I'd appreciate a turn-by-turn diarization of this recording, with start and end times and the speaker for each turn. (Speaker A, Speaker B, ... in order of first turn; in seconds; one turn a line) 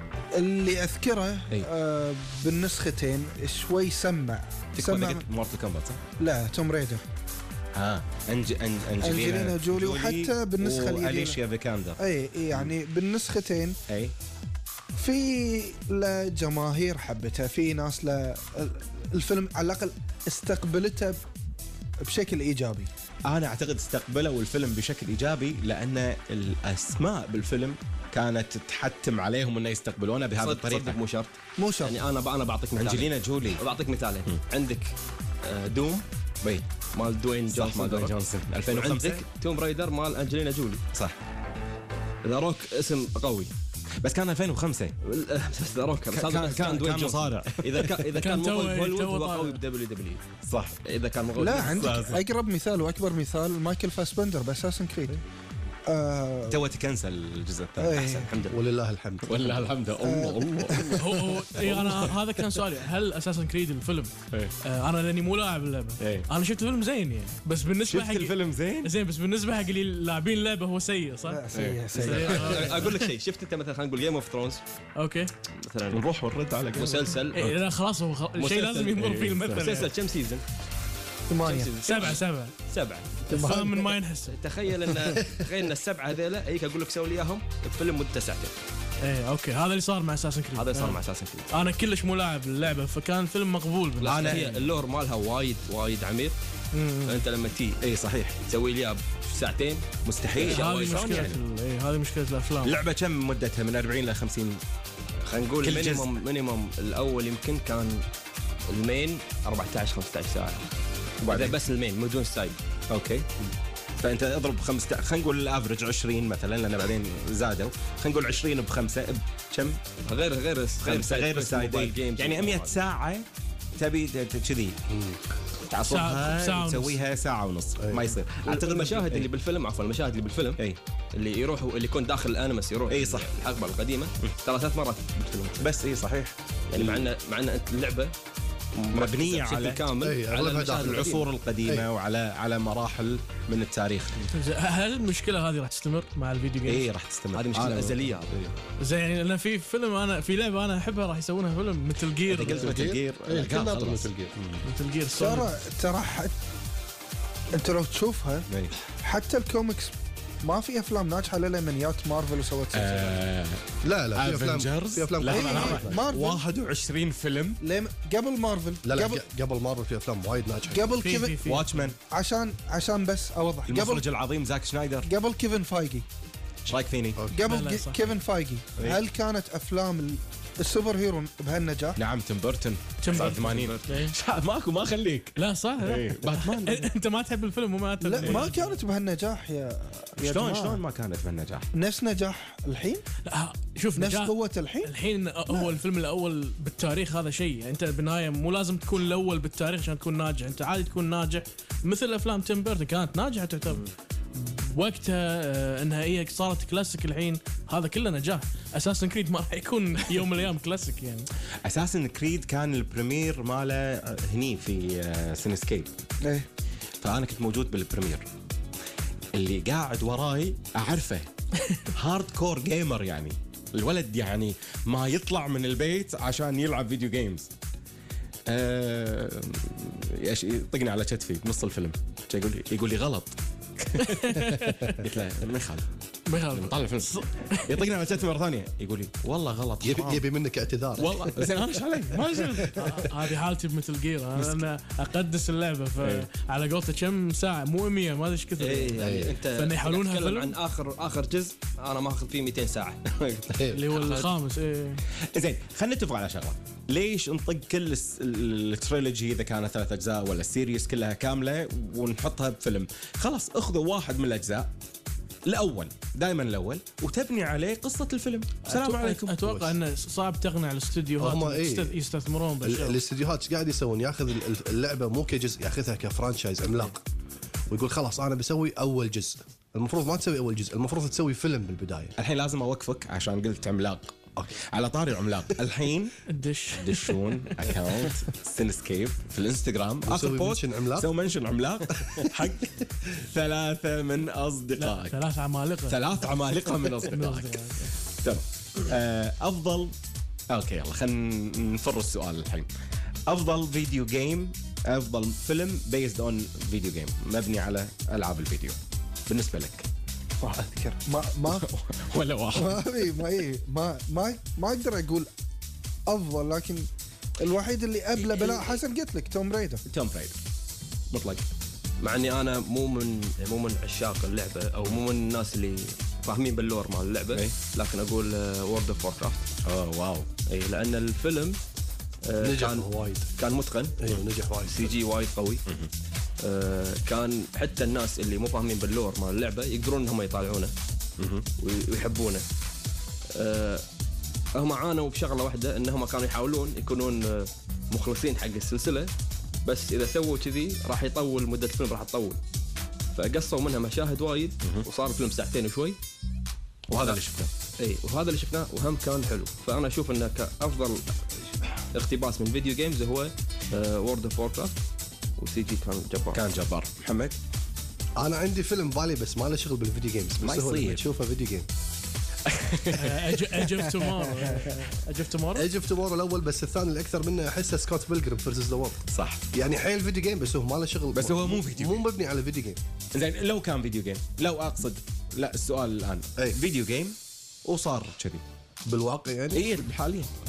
Speaker A: 0.4-5.2
Speaker B: 4.8-6.0
Speaker A: 6.2-7.0
Speaker B: 7.7-12.0
Speaker A: 9.0-11.4
Speaker A: 12.0-13.8
Speaker B: 13.9-14.1
Speaker A: 15.0-21.2
Speaker A: 22.1-22.9
Speaker B: 23.3-31.0
Speaker C: 30.4-34.9
Speaker A: 31.6-32.0
Speaker B: 32.8-33.6
Speaker C: 35.4-36.0
Speaker C: 36.9-38.1
Speaker B: 37.5-39.2
Speaker C: 38.7-40.8
Speaker C: 42.2-43.5
Speaker B: 44.0-44.9
Speaker C: 45.0-50.2
Speaker B: 46.1-48.1
Speaker D: 48.2-49.6
Speaker B: 50.4-50.8
Speaker C: 50.8-51.9
Speaker A: 51.4-55.2
Speaker B: 51.7-52.2
Speaker A: 55.9-56.6
Speaker B: 56.5-58.3
Speaker A: 57.8-58.3
Speaker C: 58.0-58.6
Speaker E: 58.5-59.5
Speaker B: 59.2-62.2
Speaker A: 60.0-61.1
Speaker D: 61.0-64.1
Speaker D: 64.6-71.4
Speaker B: 66.0-66.3
Speaker B: 67.9-68.9
Speaker A: 71.2-72.9
Speaker C: 71.5-74.6
Speaker D: 72.1-73.1
Speaker D: 74.9-75.3
Speaker C: 75.6-76.1
Speaker B: 75.9-77.5
Speaker C: 76.7-77.5
Speaker D: 77.3-79.9
Speaker C: 78.4-80.4
Speaker B: 79.2-79.6
Speaker A: 81.3-81.8
Speaker C: 81.4-88.5
Speaker D: 81.8-82.5
Speaker A: 83.3-83.9
Speaker D: 83.3-84.4
Speaker D: 89.0-94.7
Speaker C: 90.5-91.5
Speaker C: 94.0-96.3
Speaker B: 94.1-94.5
Speaker D: 96.7-97.2
Speaker C: 97.0-97.8
Speaker B: 97.8-98.4
Speaker C: 98.4-101.4
Speaker B: 100.0-101.4
Speaker D: 100.4-102.8
Speaker B: 102.6-104.6
Speaker C: 105.2-108.0
Speaker B: 105.6-106.1
Speaker C: 108.7-110.7
Speaker C: 111.2-112.5
Speaker B: 111.2-111.6
Speaker B: 112.9-113.3
Speaker B: 114.0-119.8
Speaker C: 120.0-122.7
Speaker B: 120.8-123.2
Speaker B: 123.8-124.8
Speaker E: 124.9-125.2
Speaker B: 125.7-129.3
Speaker D: 125.9-127.0
Speaker E: 127.8-128.1
Speaker C: 128.4-130.6
Speaker C: 131.1-135.7
Speaker B: 132.9-133.3
Speaker B: 135.6-137.1
Speaker C: 136.7-138.1
Speaker C: 138.8-141.2
Speaker B: 138.9-139.9
Speaker E: 140.0-141.0
Speaker B: 140.8-144.2
Speaker D: 144.3-146.9
Speaker B: 146.7-148.5
Speaker C: 147.3-148.3
Speaker D: 148.8-152.8
Speaker B: 152.3-154.6
Speaker E: 152.5-154.3
Speaker D: 154.6-155.5
Speaker A: 155.1-156.3
Speaker A: 157.5-158.5
Speaker A: 159.0-163.2
Speaker B: 162.7-167.6
Speaker E: 163.8-166.0
Speaker A: 165.2-166.4
Speaker A: 167.6-169.2
Speaker E: 168.8-171.0
Speaker A: 170.7-171.4
Speaker D: 171.0-171.9
Speaker B: 171.4-171.9
Speaker A: 172.1-174.0
Speaker B: 173.7-175.1
Speaker A: 175.1-176.1
Speaker B: 176.6-177.2
Speaker E: 177.2-177.4
Speaker A: 177.3-182.0
Speaker D: 177.4-178.0
Speaker B: 182.0-186.9
Speaker D: 183.0-184.1
Speaker C: 183.1-183.9
Speaker D: 185.3-188.8
Speaker A: 188.0-190.8
Speaker B: 190.2-191.7
Speaker A: 191.7-193.0
Speaker D: 193.2-203.8
Speaker A: 193.9-194.9
Speaker A: 195.5-195.8
Speaker D: 204.3-211.3
Speaker B: 211.6-215.9
Speaker A: 216.2-216.5
Speaker B: 217.0-218.2
Speaker B: 219.3-221.3
Speaker B: 221.9-227.5
Speaker B: 228.5-235.8
Speaker D: 234.0-235.0
Speaker D: 236.3-237.8
Speaker B: 236.5-237.1
Speaker B: 237.6-240.3
Speaker E: 239.8-241.4
Speaker B: 241.0-243.1
Speaker D: 242.8-250.6
Speaker C: 248.6-253.0
Speaker E: 248.9-249.4
Speaker E: 253.5-253.9
Speaker D: 253.7-255.0
Speaker C: 253.9-254.3
Speaker B: 255.3-264.7
Speaker B: 265.4-269.6
Speaker D: 268.6-273.0
Speaker E: 271.2-272.0
Speaker E: 272.6-277.0
Speaker E: 277.7-282.1
Speaker B: 282.2-286.1
Speaker D: 286.3-288.1
Speaker B: 286.7-295.1
Speaker E: 290.0-291.1
Speaker E: 292.0-292.3
Speaker D: 294.8-296.0
Speaker B: 295.9-297.5
Speaker D: 297.1-297.9
Speaker B: 298.2-299.9
Speaker B: 300.5-302.7
Speaker B: 303.3-308.8
Speaker B: 309.3-309.9
Speaker A: 310.4-311.6
Speaker B: 311.5-313.2
Speaker A: 312.5-315.3
Speaker A: 316.1-316.9
Speaker A: 317.4-319.8
Speaker B: 318.2-318.6
Speaker B: 319.8-320.3
Speaker B: 321.1-321.4
Speaker C: 322.0-329.5
Speaker B: 329.6-330.3
Speaker C: 330.5-331.6
Speaker C: 332.3-334.1
Speaker E: 332.4-333.2
Speaker E: 334.0-334.9
Speaker C: 334.6-335.6
Speaker C: 336.4-340.7
Speaker B: 341.2-341.4
Speaker C: 341.6-342.4
Speaker C: 343.3-343.8
Speaker C: 344.6-349.1
Speaker C: 349.6-352.4
Speaker C: 353.1-356.0
Speaker B: 356.9-357.5
Speaker C: 357.8-361.0
Speaker C: 361.9-364.8
Speaker C: 365.4-366.4
Speaker B: 366.3-367.3
Speaker E: 368.2-371.7
Speaker B: 370.4-371.0
Speaker B: 372.5-373.9
Speaker D: 372.9-375.7
Speaker E: 375.5-379.0
Speaker B: 379.1-379.4
Speaker E: 379.5-382.8
Speaker B: 381.1-382.1
Speaker B: 383.1-388.4
Speaker E: 388.9-389.6
Speaker B: 389.5-390.3